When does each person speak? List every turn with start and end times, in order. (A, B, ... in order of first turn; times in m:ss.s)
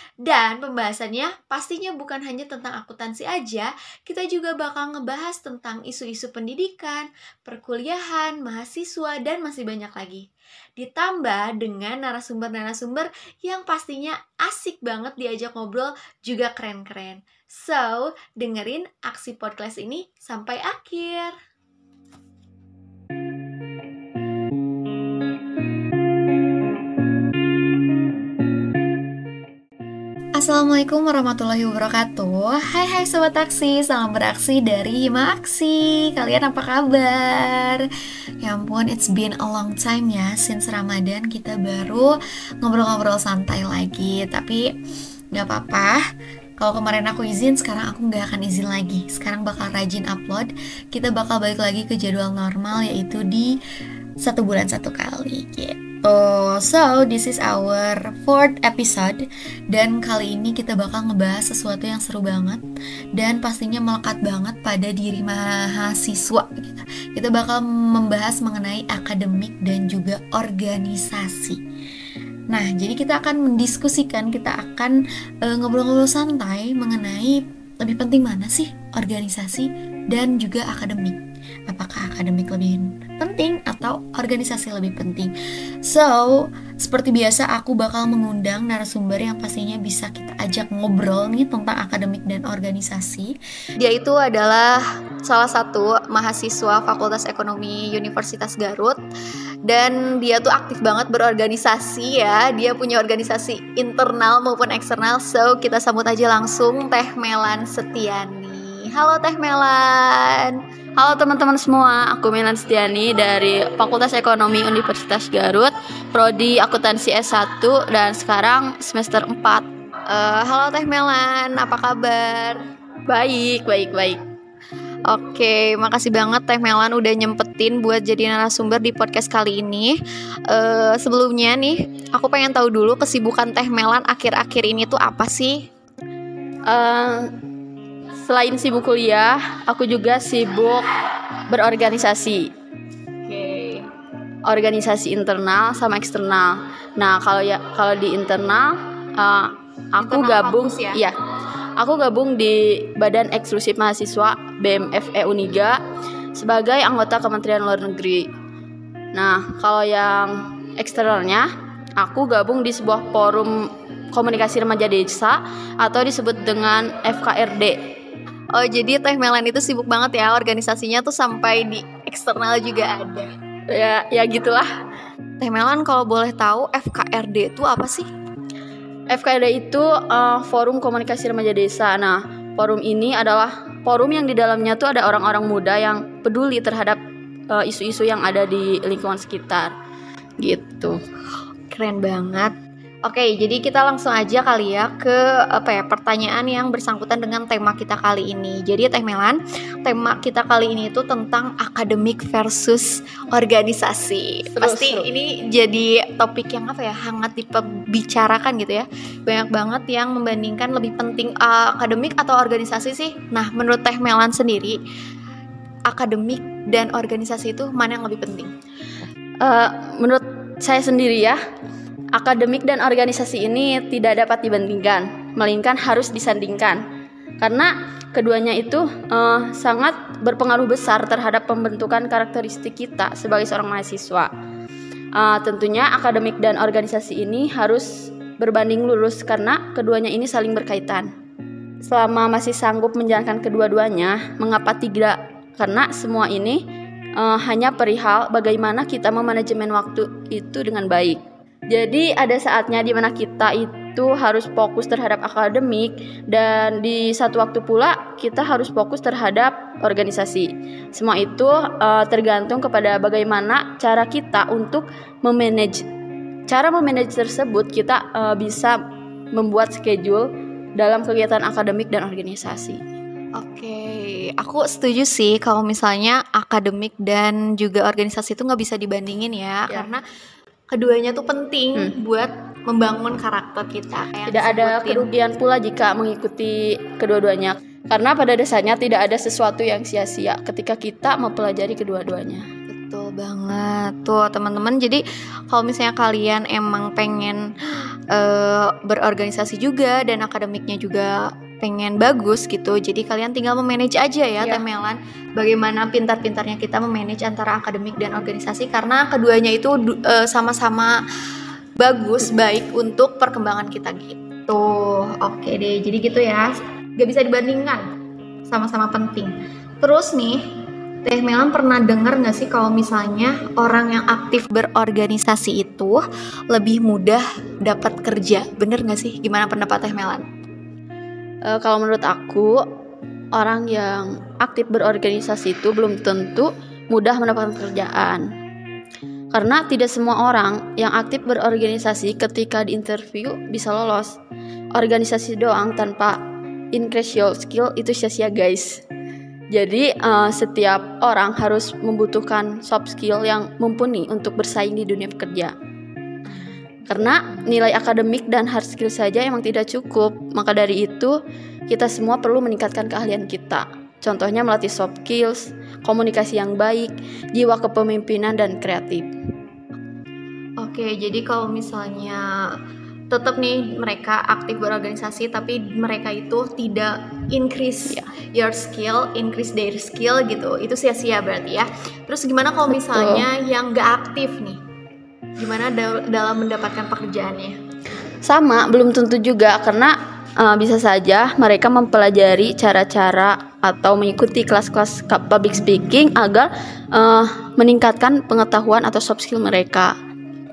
0:00.2-0:21.3 A
0:30.4-0:37.9 A
0:38.4-0:44.7 A
0:45.3-0:46.0 A
0:46.6-0:53.6 A
0:54.2-1:02.6 A
1:03.2-1:11.6 A
1:12.5-1:25.3 A
1:25.8-1:39.0 A
1:39.6-1:50.6 A
1:51.0-1:59.6 B
2:00.1-2:02.6 A
2:03.0-2:04.2 B
2:05.0-2:10.0 A
2:10.5-2:15.6 A
2:16.6-2:17.4 B
2:18.2-2:20.8 B
2:21.5-2:22.5 B
2:23.2-2:23.9 A
2:24.4-2:31.2 B
2:30.0-2:31.0 A
2:31.8-2:35.8 B
2:36.3-2:38.3 B
2:39.1-2:47.8 B
2:48.5-2:53.3 A
2:53.7-2:54.7 B
2:55.4-2:58.1 A
2:59.1-3:09.7 B
3:10.4-3:11.0 B
3:11.7-3:12.5 A
3:13.0-3:34.8 A
3:24.5-3:25.1 B
3:35.9-3:38.5 A
3:39.4-3:41.4 B
3:42.1-3:46.8 B
3:47.4-3:54.3 B
3:55.1-4:01.1 B
4:01.8-4:06.6 B
4:07.2-4:25.9 B
4:26.5-4:28.8 B
4:29.3-4:32.8 B
4:33.4-4:40.0 A
4:40.7-4:45.1 A
4:44.3-4:52.4 B
4:52.7-4:57.5 A
4:58.1-5:11.0 A
5:11.8-5:17.8 A
5:18.4-5:20.4 A
5:21.0-5:30.3 A
5:31.4-5:32.7 B
5:33.3-5:38.2 B
5:39.3-5:44.2 B
5:44.7-5:46.2 B
5:46.7-5:48.8 B
5:49.5-5:55.5 B
5:56.8-6:09.1 B
6:10.6-6:12.5 A
6:13.1-6:24.6 A
6:22.7-6:23.3 B
6:25.4-6:27.5 A
6:28.2-6:39.9 B